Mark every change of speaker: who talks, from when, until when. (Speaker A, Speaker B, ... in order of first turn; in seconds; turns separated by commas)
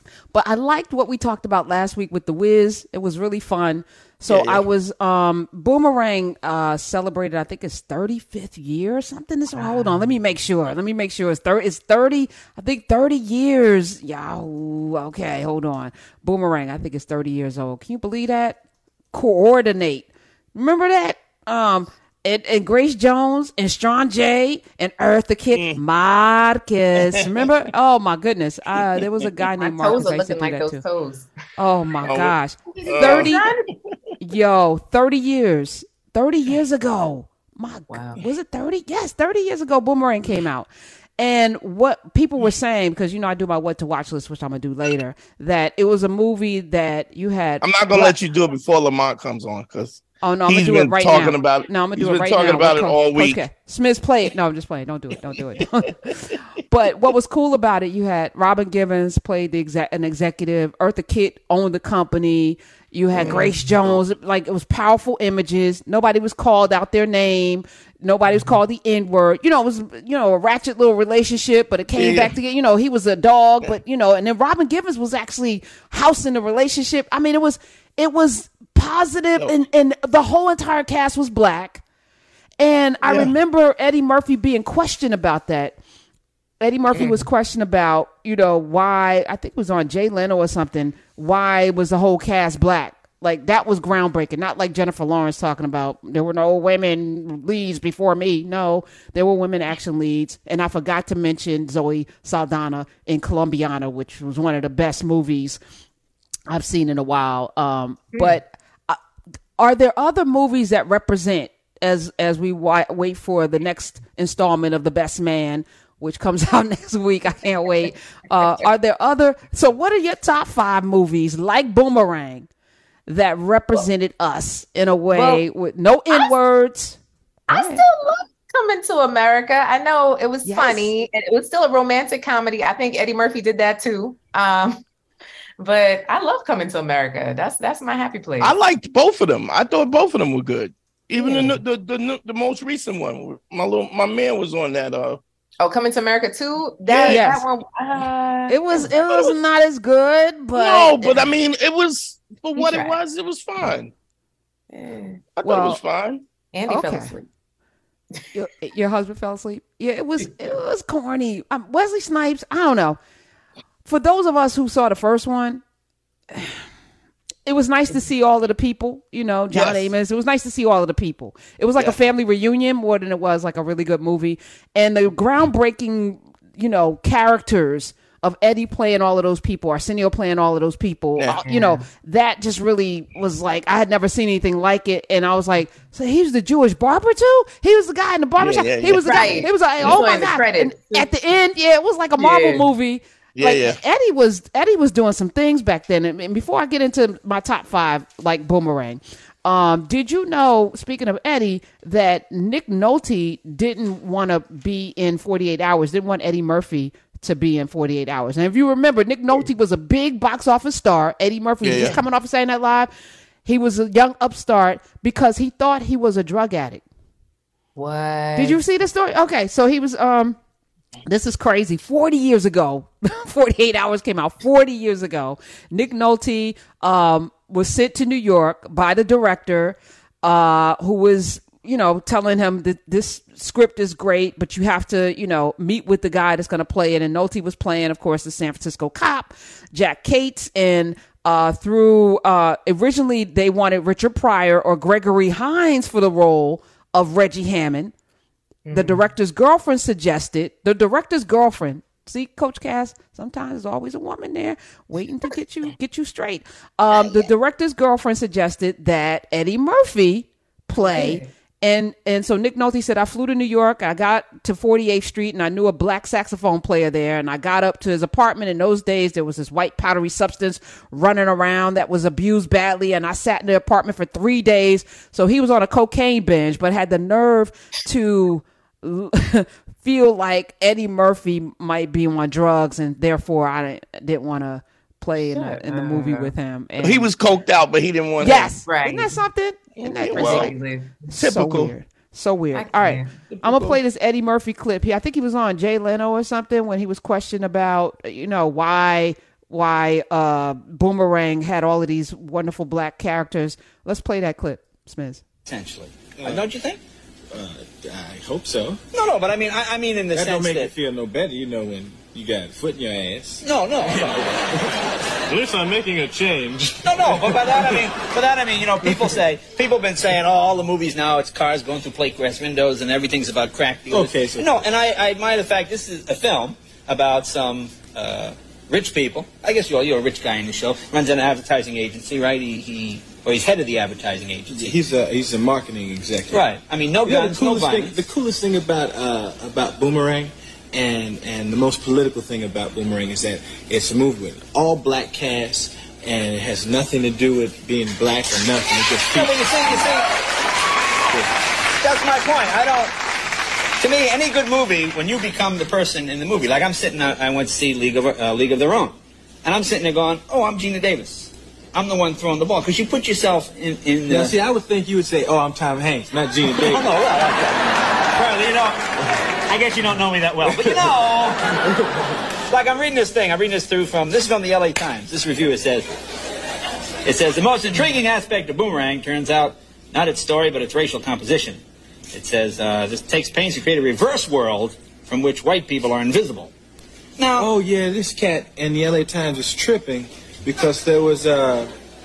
Speaker A: 0.3-18.6, Speaker B: 4.3-4.6, Speaker C: 9.5-10.1, Speaker A: 19.1-30.8, Speaker B: 25.5-25.8, Speaker B: 27.0-27.3, Speaker B: 29.0-29.3, Speaker C: 29.6-31.3, Speaker A: 31.6-33.5, Speaker B: 32.0-33.9, Speaker C: 32.8-33.7, Speaker A: 34.2-48.2, Speaker C: 37.9-38.2, Speaker B: 47.6-53.4, Speaker A: 50.2-81.8, Speaker B: 63.1-64.0, Speaker B: 71.9-72.3, Speaker A: 82.6-85.8, Speaker B: 83.0-83.3, Speaker A: 86.6-105.6, Speaker B: 86.9-87.2, Speaker A: 106.5-109.0, Speaker A: 109.6-122.5, Speaker A: 123.1-127.8, Speaker C: 125.1-125.4, Speaker C: 127.5-134.8, Speaker A: 130.4-130.9, Speaker C: 135.6-138.5, Speaker B: 138.4-145.2, Speaker C: 141.1-141.6, Speaker C: 145.6-148.9, Speaker B: 146.8-147.2, Speaker A: 147.0-147.4, Speaker A: 148.5-151.1, Speaker B: 150.5-153.9, Speaker C: 152.6-153.0, Speaker C: 154.7-155.2, Speaker B: 155.3-156.2, Speaker A: 155.4-155.8, Speaker C: 156.5-157.2, Speaker A: 156.7-157.1, Speaker A: 158.3-163.0, Speaker A: 163.8-165.6, Speaker A: 166.3-166.6, Speaker A: 167.4-212.9, Speaker B: 169.5-169.9, Speaker B: 181.2-181.4, Speaker C: 181.4-181.8, Speaker B: 188.4-189.4, Speaker C: 189.0-191.1, Speaker C: 192.2-192.7, Speaker B: 193.3-193.8, Speaker B: 211.6-212.0, Speaker A: 213.4-216.8, Speaker C: 217.8-218.6, Speaker A: 218.3-220.4, Speaker A: 221.1-247.9, Speaker C: 248.6-249.0, Speaker A: 248.7-287.1, Speaker C: 256.9-257.3, Speaker C: 260.8-261.3, Speaker C: 285.3-286.3, Speaker B: 286.8-288.5, Speaker A: 288.2-290.5, Speaker C: 288.6-289.2, Speaker B: 289.8-290.5, Speaker C: 290.1-291.0, Speaker A: 291.1-305.2, Speaker B: 291.1-291.7, Speaker C: 292.5-293.3, Speaker D: 305.5-306.8, Speaker E: 306.2-306.4, Speaker E: 307.3-308.8, Speaker D: 308.9-310.7, Speaker E: 310.1-314.7, Speaker D: 313.4-314.6, Speaker E: 315.3-317.9, Speaker D: 316.8-334.7, Speaker E: 318.8-319.2, Speaker E: 323.9-324.6, Speaker E: 334.5-336.5, Speaker D: 336.3-338.0, Speaker E: 337.0-349.5, Speaker D: 349.1-350.1, Speaker D: 351.7-352.9, Speaker D: 353.8-364.4, Speaker E: 364.1-366.9, Speaker D: 366.5-368.9, Speaker D: 369.5-371.6, Speaker E: 370.5-370.9, Speaker D: 372.5-375.9, Speaker D: 377.0-381.6, Speaker D: 382.1-386.5, Speaker D: 387.2-387.5, Speaker E: 387.3-391.7